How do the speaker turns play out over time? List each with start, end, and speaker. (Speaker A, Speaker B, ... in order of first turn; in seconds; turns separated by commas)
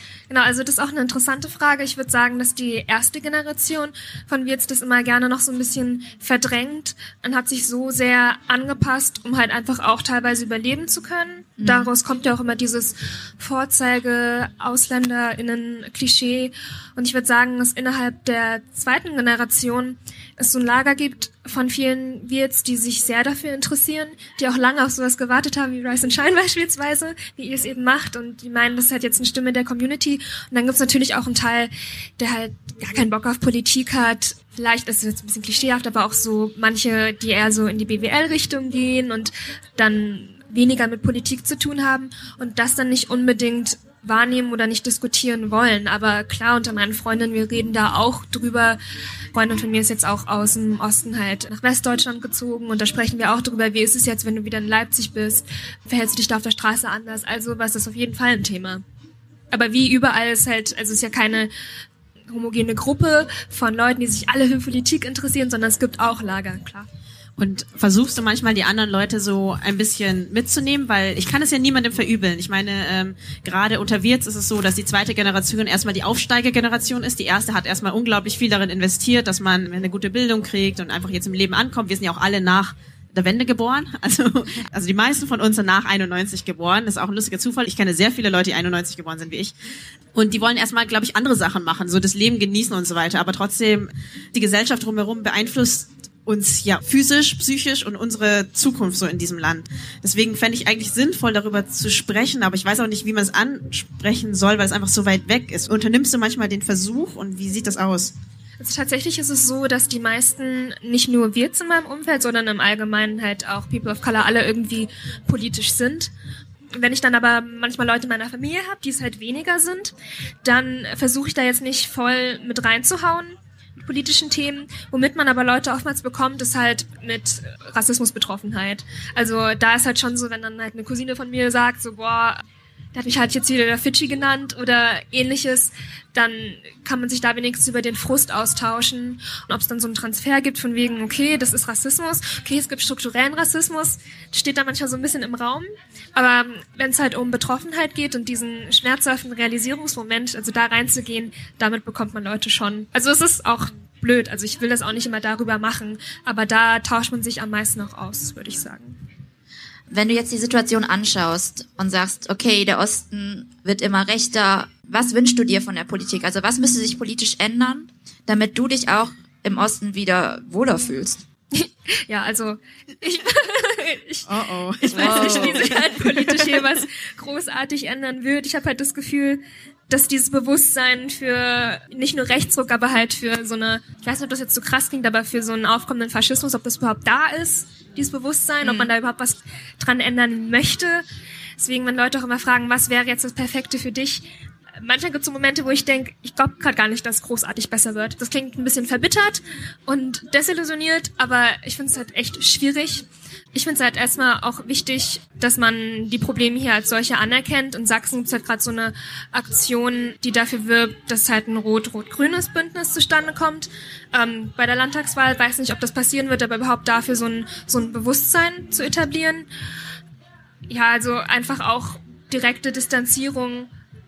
Speaker A: 0.3-48.8, Speaker B: 11.6-11.9, Speaker A: 49.3-58.8, Speaker A: 59.5-61.5, Speaker A: 62.3-66.9, Speaker C: 67.4-89.5, Speaker C: 90.1-108.1, Speaker A: 108.6-116.1, Speaker A: 116.8-132.4, Speaker A: 132.9-159.0, Speaker B: 159.9-171.2, Speaker A: 171.5-174.3, Speaker C: 174.3-176.2, Speaker A: 174.8-191.0, Speaker B: 174.9-176.1, Speaker B: 188.6-188.9, Speaker A: 191.6-194.3, Speaker A: 194.8-219.5, Speaker A: 220.7-223.7